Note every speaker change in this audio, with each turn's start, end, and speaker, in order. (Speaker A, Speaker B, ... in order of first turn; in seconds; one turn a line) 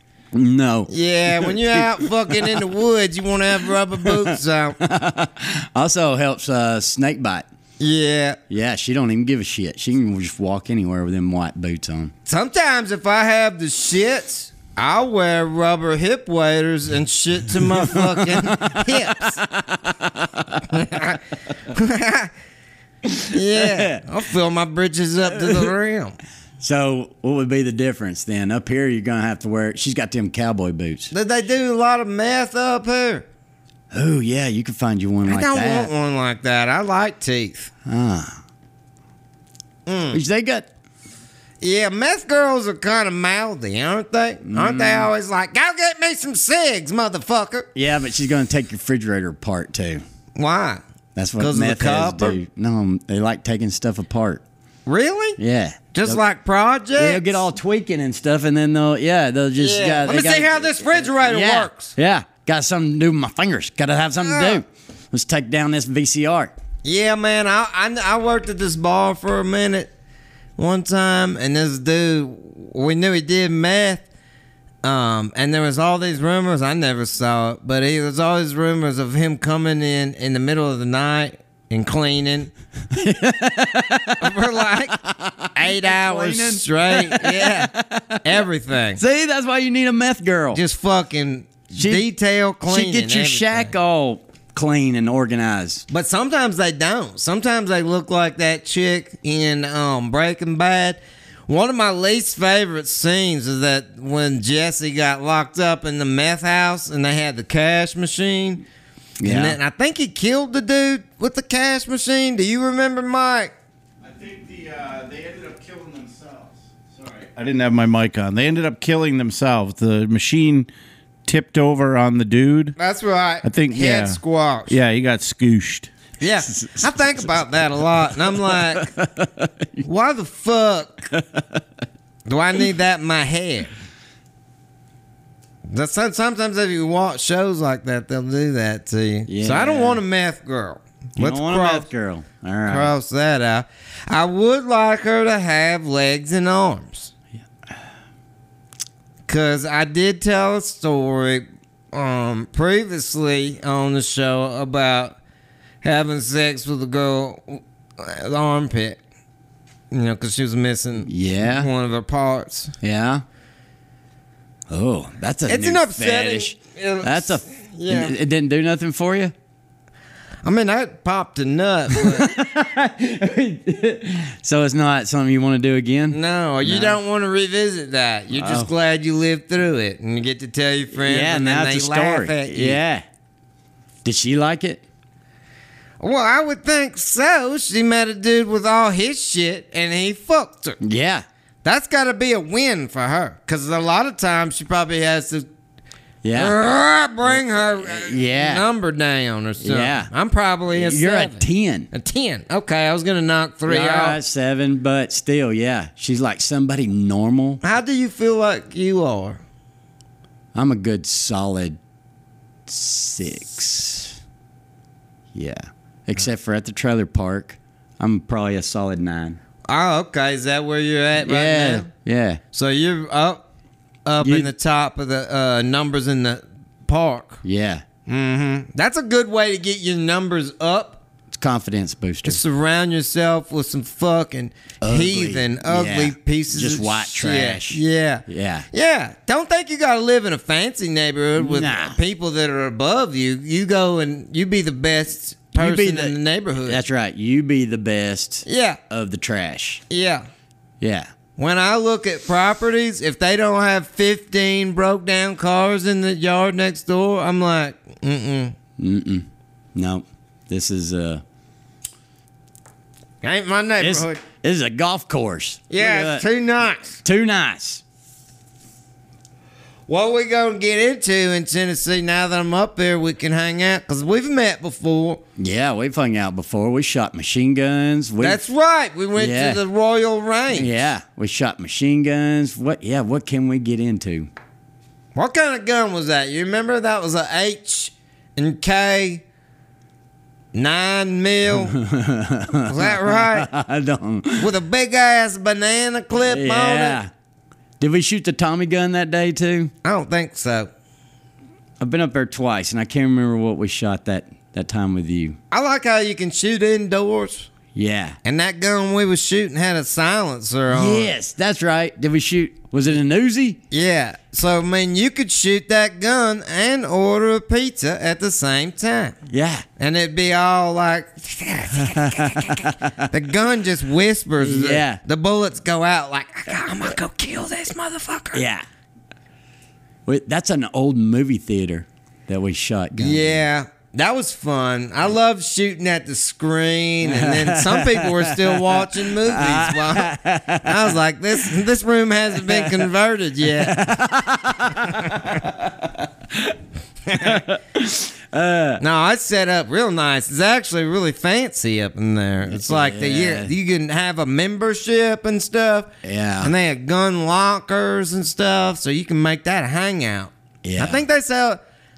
Speaker A: 0.3-2.6
Speaker B: 0.9-4.8
Speaker A: 4.0-7.4
Speaker B: 7.8-8.4
Speaker A: 8.5-12.1
Speaker B: 12.3-19.4
Speaker A: 17.6-20.8
Speaker B: 20.7-21.2
Speaker B: 21.7-22.3
Speaker A: 23.1-24.0
Speaker B: 23.3-26.1
Speaker A: 25.4-25.7
Speaker A: 26.6-31.1
Speaker B: 31.1-33.2
Speaker A: 33.9-35.9
Speaker B: 35.2-37.7
Speaker A: 37.9-38.4
Speaker B: 39.9-40.2
Speaker A: 40.1-40.6
Speaker B: 41.6-47.7
Speaker A: 44.4-45.1
Speaker A: 47.7-50.0
Speaker B: 50.4-50.8
Speaker A: 51.1-54.4
Speaker B: 51.4-52.4
Speaker B: 54.9-55.4
Speaker A: 55.4-56.2
Speaker B: 55.9-57.5
Speaker A: 57.0-66.5
Speaker B: 59.6-61.9
Speaker B: 64.2-64.6
Speaker B: 66.8-69.9
Speaker B: 70.6-74.0
Speaker B: 74.8-82.5
Speaker A: 82.9-84.4
Speaker B: 84.2-85.0
Speaker A: 85.0-88.2
Speaker B: 85.5-87.7
Speaker B: 88.2-89.0
Speaker A: 89.0-90.6
Speaker B: 90.5-93.7
Speaker A: 91.8-92.0
Speaker A: 92.7-95.8
Speaker B: 95.9-108.6
Speaker A: 109.2-109.6
Speaker B: 109.2-113.5
Speaker C: 114.0-120.7
Speaker C: 121.2-122.8
Speaker B: 122.8-124.8
Speaker C: 123.4-125.9
Speaker B: 126.2-128.9
Speaker A: 126.5-129.8
Speaker B: 129.8-131.1
Speaker A: 131.1-131.6
Speaker B: 132.2-133.7
Speaker B: 135.7-141.9
Speaker A: 139.3-140.0
Speaker A: 141.2-142.9
Speaker B: 142.7-147.1
Speaker B: 149.3-155.2
Speaker B: 155.8-159.0
Speaker B: 159.9-162.7
Speaker A: 161.1-161.7
Speaker A: 162.8-163.2
Speaker A: 164.7-169.3
Speaker B: 165.5-168.1
Speaker B: 170.4-172.3
Speaker A: 172.0-177.0
Speaker B: 176.1-182.8
Speaker A: 178.3-178.7
Speaker A: 180.9-183.0
Speaker A: 184.0-184.8
Speaker B: 186.0-190.8
Speaker A: 190.8-191.2
Speaker B: 191.6-195.5
Speaker A: 196.2-196.6
Speaker B: 196.3-204.2
Speaker A: 197.2-198.6
Speaker A: 199.6-200.1
Speaker A: 200.7-201.9
Speaker A: 203.7-207.6
Speaker B: 207.6-209.4
Speaker A: 210.5-211.8
Speaker A: 212.7-214.1
Speaker A: 215.3-219.4
Speaker B: 219.7-221.9
Speaker A: 221.2-222.4
Speaker B: 222.5-223.4
Speaker B: 224.1-227.4
Speaker A: 224.2-224.5
Speaker A: 227.4-227.8
Speaker B: 228.1-231.0
Speaker A: 231.3-232.4
Speaker B: 232.2-246.8
Speaker A: 234.8-238.7
Speaker A: 241.4-242.0
Speaker A: 245.5-249.8
Speaker B: 248.4-248.8
Speaker B: 249.9-250.2
Speaker A: 250.8-251.1
Speaker B: 251.4-258.6
Speaker A: 258.8-261.2
Speaker B: 263.2-264.2
Speaker A: 263.8-266.2
Speaker B: 265.7-267.0
Speaker A: 267.0-267.8
Speaker B: 269.9-275.2
Speaker A: 275.4-278.4
Speaker B: 278.2-280.7
Speaker A: 279.1-279.6
Speaker A: 280.5-284.3
Speaker B: 285.1-289.2
Speaker B: 290.5-291.7
Speaker A: 291.5-294.5
Speaker B: 292.7-293.5
Speaker B: 294.4-297.0
Speaker A: 296.2-297.1
Speaker A: 297.8-299.7
Speaker B: 299.8-300.7
Speaker A: 301.8-305.4
Speaker B: 305.5-307.5
Speaker A: 307.7-308.2
Speaker B: 308.2-311.1
Speaker A: 310.7-313.6
Speaker B: 313.7-319.1
Speaker A: 319.3-319.6
Speaker B: 319.8-328.4
Speaker A: 321.8-323.0
Speaker A: 324.4-325.0
Speaker A: 328.3-328.6
Speaker A: 330.1-333.4
Speaker B: 333.0-343.8
Speaker A: 337.0-341.5
Speaker A: 342.4-342.9
Speaker A: 343.4-346.6
Speaker B: 344.9-345.3
Speaker B: 347.1-347.4
Speaker A: 347.2-348.8
Speaker B: 348.8-361.6
Speaker A: 352.4-353.5
Speaker A: 356.0-356.5
Speaker A: 360.6-361.0